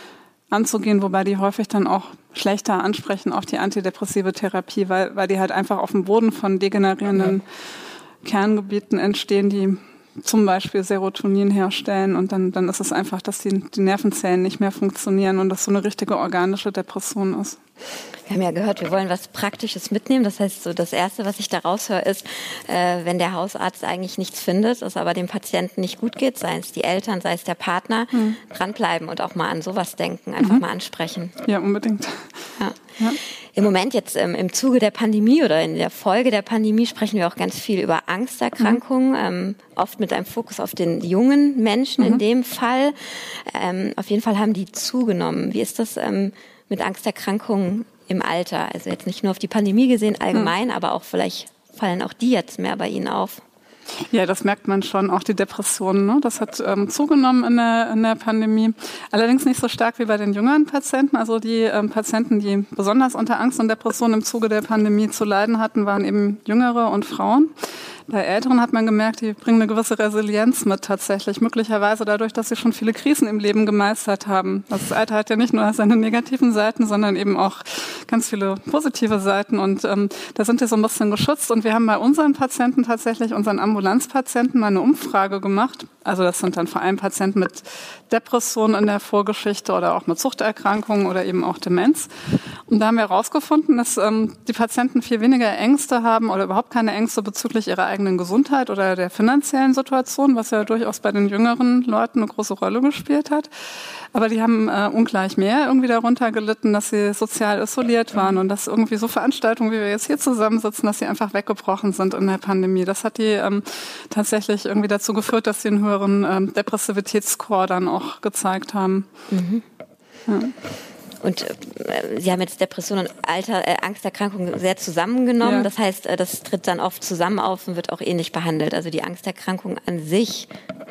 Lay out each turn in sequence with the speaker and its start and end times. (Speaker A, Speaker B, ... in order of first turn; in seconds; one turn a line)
Speaker A: 0.5-7.4
Speaker A: 8.2-17.6
Speaker B: 18.3-31.3
Speaker A: 31.4-32.3
Speaker B: 33.5-53.4
Speaker A: 54.1-67.5
Speaker A: 68.1-92.1
Speaker A: 92.7-103.5
Speaker A: 104.1-119.1
Speaker B: 119.3-119.6
Speaker A: 120.3-120.5
Speaker B: 121.2-130.5
Speaker A: 125.4-125.7